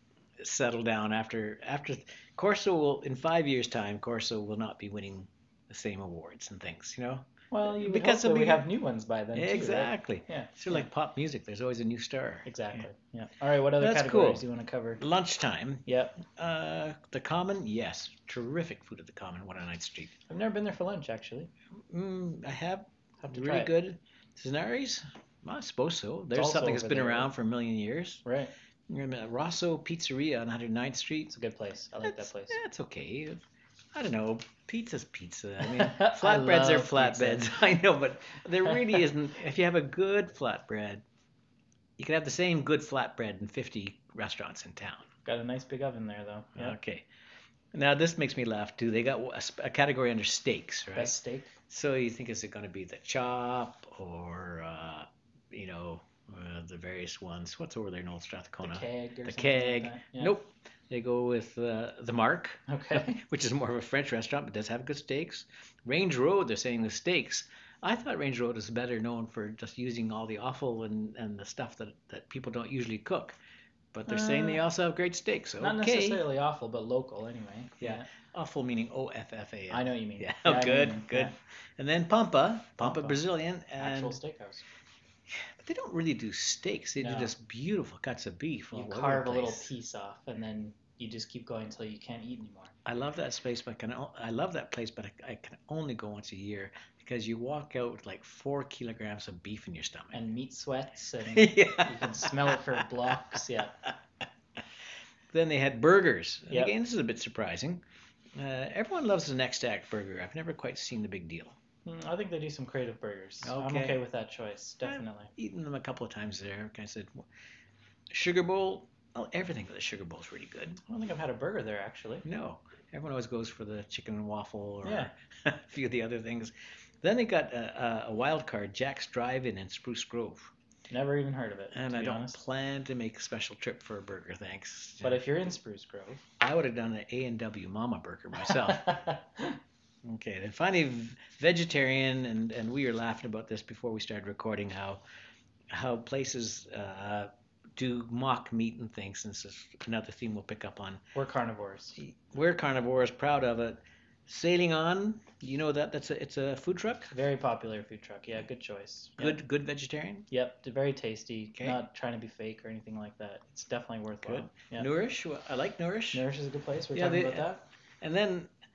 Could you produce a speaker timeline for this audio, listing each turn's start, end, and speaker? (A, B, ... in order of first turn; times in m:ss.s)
0:00.4-0:08.6 A
0:07.5-0:10.9 B
0:09.3-0:12.8 A
0:12.4-0:15.0 B
0:13.8-0:14.4 A
0:15.0-0:20.1 A
0:15.8-0:16.2 B
0:20.3-0:21.5 B
0:21.9-0:28.2 A
0:23.2-0:23.7 B
0:26.3-0:27.3 B
0:28.2-0:28.5 B
0:28.9-0:31.3 A
0:31.3-0:32.6 B
0:32.0-0:41.0 A
0:35.6-0:37.5 B
0:38.7-0:39.0 B
0:42.0-0:45.1 A
0:45.2-0:46.8 B
0:46.6-0:47.0 A
0:47.7-0:51.2 A
0:50.9-0:51.5 B
0:51.7-1:13.4 A
0:58.6-1:00.3 B
1:02.7-1:03.2 B
1:13.9-1:16.2 A
1:14.1-1:14.6 B
1:15.6-1:18.1 B
1:17.8-1:24.2 A
1:19.7-1:21.3 B
1:22.8-1:23.2 B
1:23.8-1:24.6 B
1:25.3-1:29.7 A
1:27.0-1:27.3 B
1:28.7-1:32.7 B
1:32.8-1:40.2 A
1:40.1-1:43.7 B
1:41.2-1:42.8 A
1:45.3-1:47.8 A
1:48.3-1:51.6 A
1:51.8-1:55.3 B
1:53.4-1:54.0 A
1:54.8-1:57.3 A
1:58.1-2:00.8 A
2:00.8-2:02.2 B
2:02.2-2:10.5 A
2:04.8-2:05.1 B
2:10.9-2:12.4 B
2:11.7-2:15.2 A
2:15.0-2:16.2 B
2:16.4-2:19.1 A
2:18.5-2:19.6 B
2:20.0-2:25.0 A
2:25.7-2:31.0 A
2:31.1-2:32.0 B
2:32.0-2:37.1 A
2:37.1-2:39.4 B
2:39.2-2:40.3 A
2:40.3-2:44.9 B
2:44.2-2:46.2 A
2:46.1-2:47.6 B
2:46.9-2:47.5 A
2:48.0-2:48.5 A